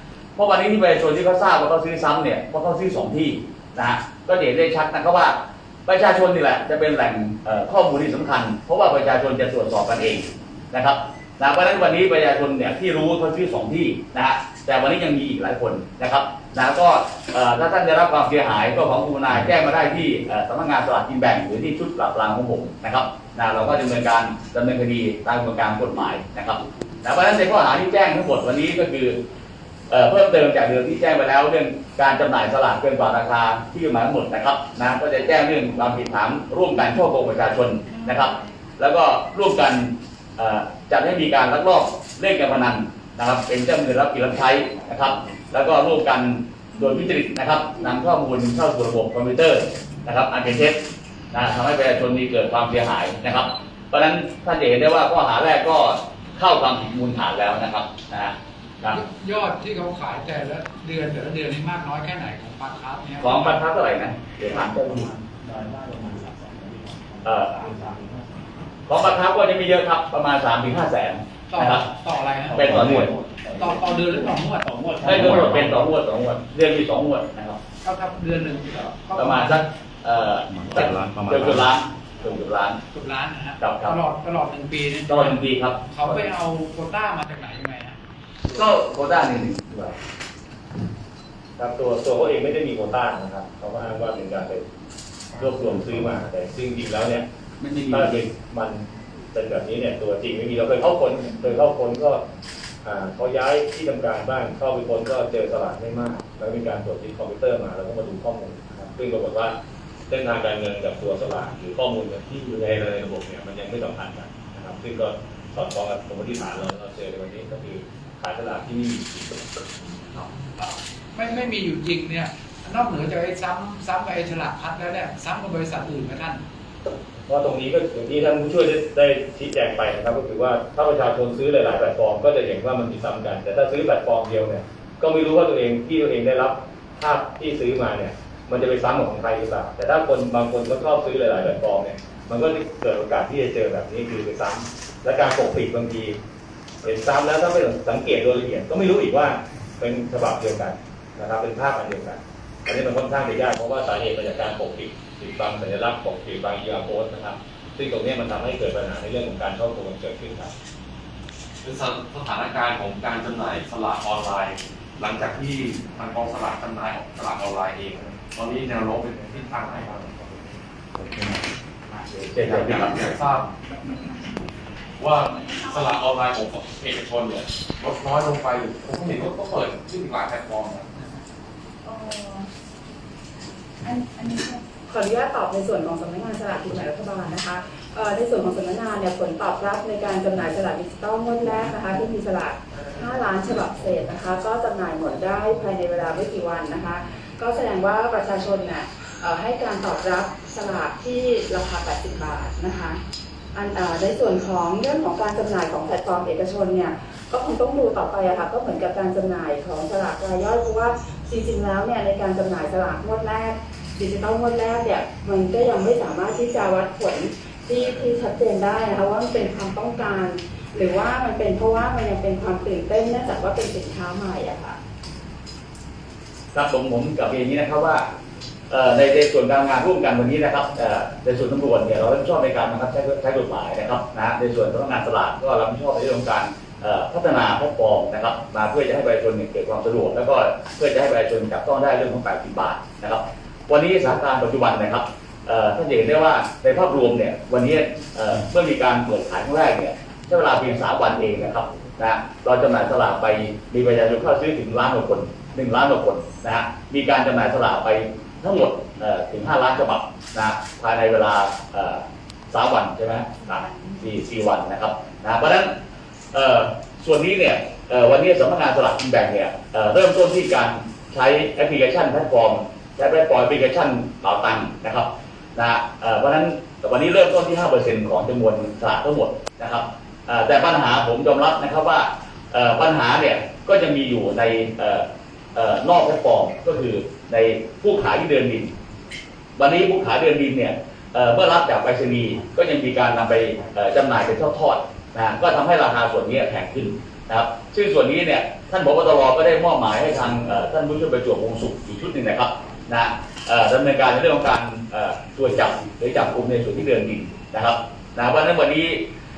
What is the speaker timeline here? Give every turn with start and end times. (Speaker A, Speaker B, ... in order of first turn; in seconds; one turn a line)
Speaker A: 0.4-29.2
Speaker A: 29.9-50.8
Speaker A: 51.3-59.0
Speaker B: 58.9-63.6
Speaker A: 63.2-65.1
Speaker C: 65.4-67.0
Speaker A: 67.2-67.5
Speaker C: 67.6-68.2
Speaker A: 68.9-71.8
Speaker B: 71.5-75.7
Speaker A: 72.5-73.1
Speaker C: 72.9-73.8
Speaker A: 75.0-77.6
Speaker B: 77.8-79.6
Speaker A: 79.2-82.8
Speaker B: 82.9-88.0
Speaker A: 83.6-84.0
Speaker A: 85.1-86.3
Speaker A: 88.5-89.9
Speaker C: 91.6-94.7
Speaker C: 95.4-97.3
Speaker A: 97.6-98.2
Speaker C: 97.9-102.2
Speaker C: 102.8-109.5
Speaker C: 110.1-120.3
Speaker B: 120.6-126.4
Speaker C: 127.3-146.2
Speaker C: 146.8-160.5
Speaker D: 161.6-170.5
Speaker A: 171.9-173.0
Speaker D: 172.4-173.5
Speaker D: 175.0-181.0
Speaker E: 181.8-182.5
Speaker E: 183.8-203.0
Speaker E: 203.5-224.8
Speaker A: 226.5-228.1
Speaker A: 228.7-265.7
Speaker A: 266.3-288.7
Speaker A: 289.6-309.1